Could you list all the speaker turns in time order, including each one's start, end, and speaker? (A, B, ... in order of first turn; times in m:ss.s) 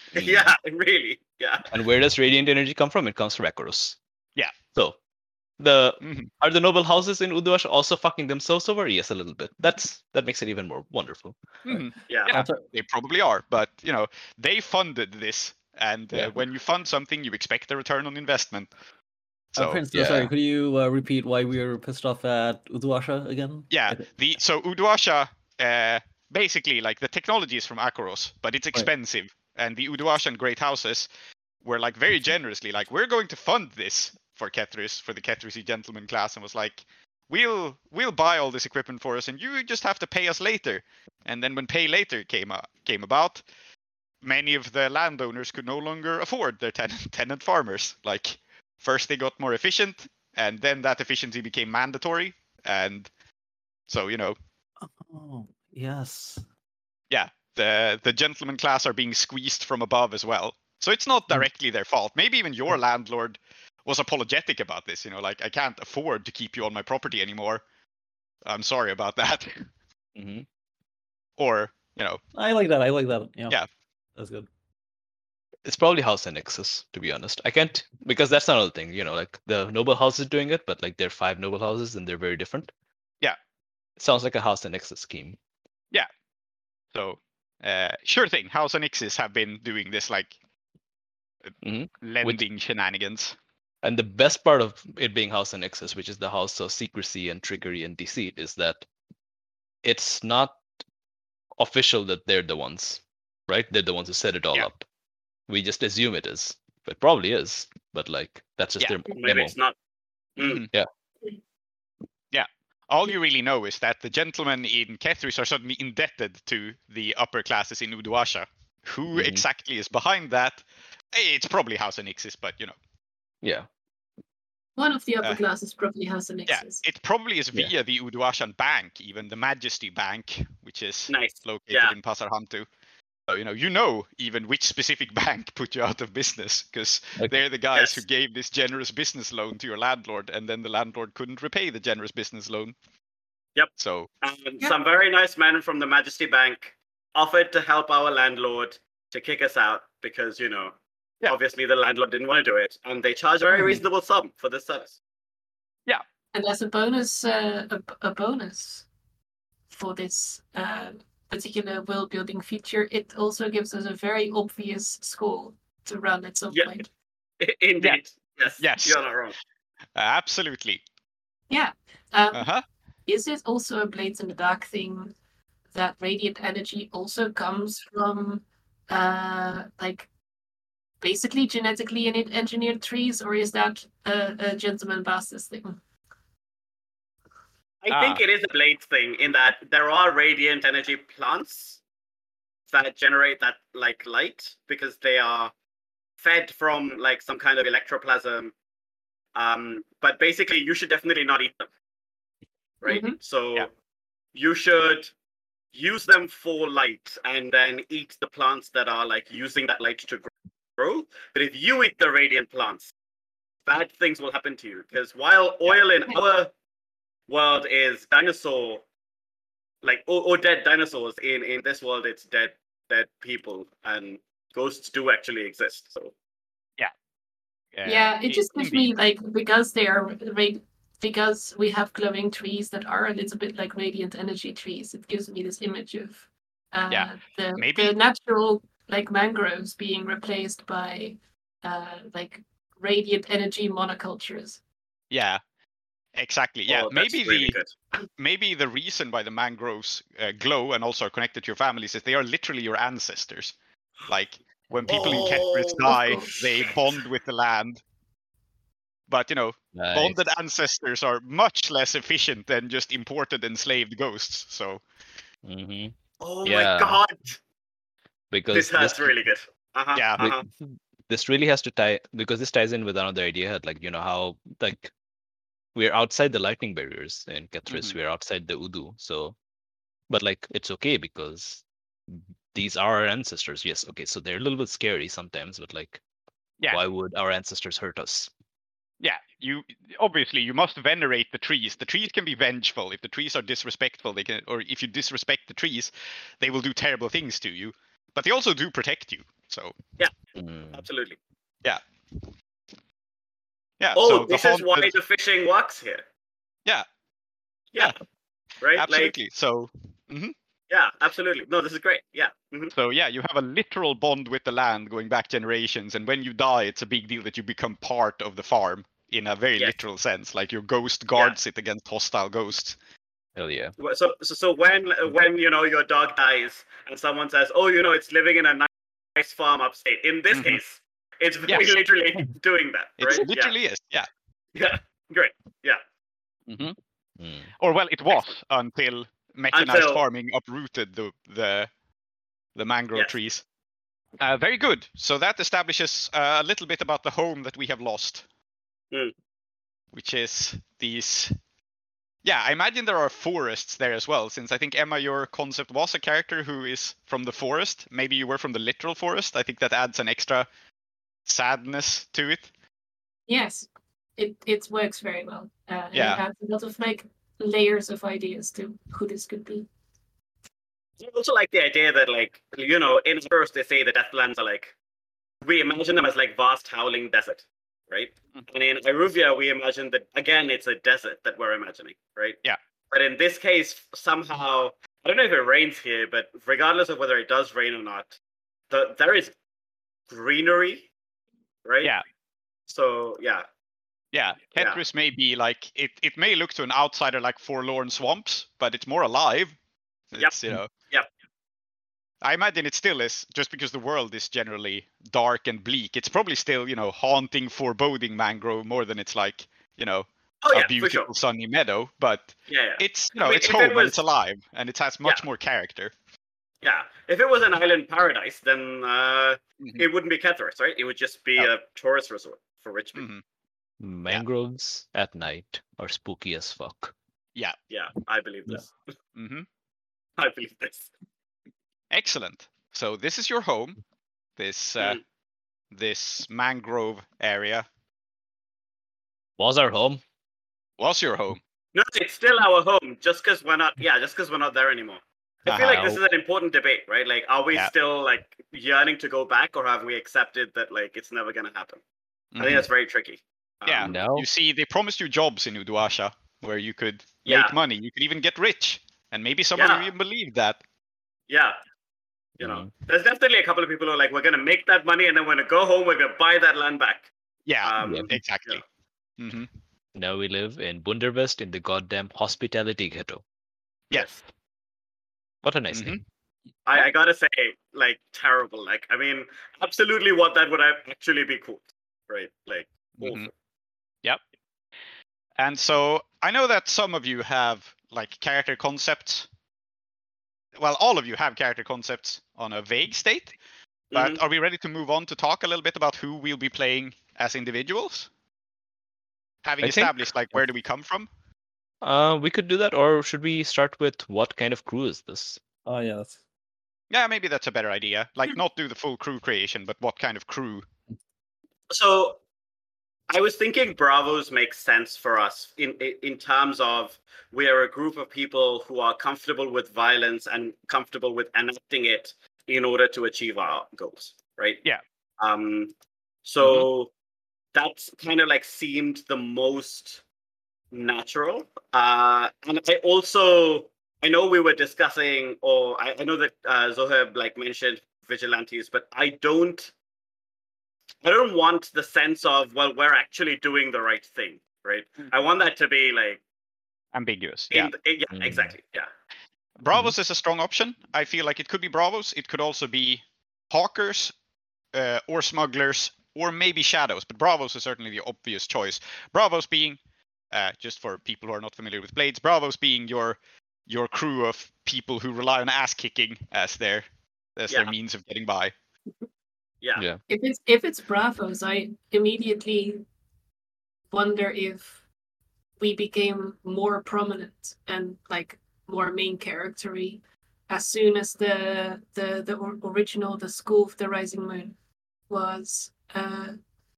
0:00.1-0:01.7 A
0:00.2-0:00.5 B
0:01.7-0:04.0 B
0:05.6-0:11.4 B
0:06.0-0:06.3 C
0:11.6-0:18.7 C
0:11.7-0:12.6 D
0:12.1-0:12.4 A
0:19.5-0:19.8 C
0:19.6-0:24.1 D
0:19.9-0:20.3 B
0:23.7-0:31.1 C
0:31.6-0:43.4 C
0:44.2-0:53.1 C
0:53.9-0:54.4 C
0:54.8-0:56.4 D
0:57.1-1:07.6 C
1:08.4-1:09.6 C
1:10.2-1:10.5 B
1:11.4-1:12.2 C
1:12.4-1:13.6 D
1:14.2-1:14.5 D
1:15.7-1:22.7 B
1:24.0-1:25.4 B
1:26.9-1:30.3 C
1:31.6-1:32.4 B
1:32.0-1:33.4 C
1:33.8-1:38.9 B
1:39.8-1:40.6 B
1:41.6-1:44.8 B
1:45.5-1:49.5 B
1:49.2-1:49.8 A
1:50.4-1:50.6 A
1:50.4-1:50.7 C
1:52.3-2:02.8 C
1:59.1-1:59.4 B
2:03.4-2:03.7 B
2:04.8-2:06.8 E
2:06.5-2:12.7 C
2:11.1-2:11.9 A
2:13.3-2:22.8 C
2:17.7-2:18.0 A
2:23.6-2:35.0 A
2:23.8-2:24.1 C
2:36.3-2:38.9 E
2:39.7-2:46.9 E
2:47.4-2:49.4 A
2:48.6-2:49.0 C
2:50.0-2:50.8 C
2:51.5-2:52.5 E
2:52.3-2:52.6 C
2:53.1-2:55.2 E
2:55.7-3:00.1 E
3:01.0-3:05.8 E
3:07.8-3:11.8 A
3:07.9-3:08.2 C
3:12.7-3:15.5 A
3:16.2-3:18.5 A
3:19.4-3:21.7 A
3:22.8-3:23.7 A
3:22.8-3:23.2 E
3:24.3-3:25.1 A
3:25.7-3:32.9 A
3:33.7-3:36.5 A
3:37.3-3:38.8 A
3:39.8-3:46.1 A
3:47.7-3:48.9 C
3:47.8-4:04.6 E
3:56.9-3:57.9 C
4:05.1-4:05.4 C
4:06.2-4:07.6 C
4:06.7-4:07.7 A
4:08.2-4:13.6 C
4:14.1-4:17.8 C
4:14.9-4:16.8 A
4:19.1-4:24.8 C
4:19.8-4:20.3 B
4:25.4-4:27.0 B
4:26.2-4:27.4 A
4:28.3-4:29.2 B
4:28.5-4:30.5 A
4:30.0-4:30.3 C
4:30.2-4:34.9 B
4:35.8-4:39.4 B
4:37.7-4:38.0 C
4:40.1-4:46.0 B
4:46.7-4:48.3 B
4:49.0-4:59.8 C
5:00.4-5:00.8 B
5:00.7-5:01.2 A
5:03.8-5:04.9 C
5:03.9-5:06.0 A
5:07.7-5:08.0 A
5:08.6-5:09.1 A
5:08.7-5:10.3 C
5:10.7-5:12.7 A
5:12.8-5:22.8 C
5:23.4-5:23.7 B
5:23.8-5:33.5 A
5:30.3-5:30.6 C
5:33.0-5:34.1 C
5:34.6-5:35.8 A
5:36.5-5:36.8 C
5:37.2-5:37.5 B
5:37.6-5:41.7 C
5:39.5-5:40.0 A
5:42.6-5:43.4 C
5:44.2-5:48.2 C
5:49.9-5:51.4 C
5:52.2-6:00.5 C
6:01.3-6:02.5 C
6:03.3-6:09.7 E
6:05.9-6:06.2 C
6:11.0-6:14.8 A
6:15.4-6:22.4 A
6:22.9-6:28.2 A
6:28.7-6:29.4 A
6:30.1-6:30.9 A
6:31.6-6:31.9 A
6:32.7-6:33.5 A
6:34.1-6:39.6 C
6:40.1-6:40.7 C
6:42.2-6:55.9 C
6:50.4-6:51.1 A
6:52.5-6:54.0 A
6:56.6-7:03.0 A
7:03.0-7:03.2 C
7:03.8-7:06.9 B
7:07.7-7:08.7 A
7:09.2-7:09.5 C
7:10.2-7:10.9 A
7:11.9-7:13.8 C
7:14.4-7:15.0 C
7:15.7-7:17.7 C
7:19.4-7:20.0 B
7:20.8-7:21.4 C
7:21.7-7:31.8 A
7:25.5-7:26.0 C
7:32.3-7:32.6 C
7:32.4-7:34.0 A
7:33.7-7:40.6 C
7:33.8-7:34.3 B
7:37.3-7:37.6 A
7:39.6-7:39.9 A
7:41.3-7:41.6 A
7:42.4-7:47.1 A
7:42.4-7:42.7 B
7:47.5-7:48.6 C
7:47.6-7:48.6 A
7:47.8-7:48.1 B
7:49.2-7:49.5 C
7:50.0-7:53.2 B
7:53.9-7:54.2 C
7:55.4-7:56.0 B
7:55.7-7:56.0 C
7:56.7-8:03.3 A
8:03.0-8:03.3 C
8:05.4-8:09.3 C
8:10.6-8:13.4 C
8:13.9-8:14.2 A
8:13.9-8:18.1 C
8:19.4-8:21.1 C
8:19.6-8:20.0 B
8:21.8-8:25.4 B
8:25.7-8:26.2 D
8:26.9-8:30.7 C
8:31.7-8:32.2 A
8:33.1-8:44.6 A
8:45.2-8:45.7 A
8:46.2-8:46.9 A
8:47.5-8:50.0 A
8:50.7-8:59.7 A
9:01.0-9:06.2 A
9:06.9-9:07.7 C
9:07.5-9:08.9 A
9:08.1-9:08.5 B
9:09.6-9:14.1 C
9:14.7-9:19.8 C
9:20.3-9:28.5 C
9:30.1-9:32.8 E
9:33.9-9:34.8 E
9:35.6-9:44.6 E
9:45.1-9:46.4 E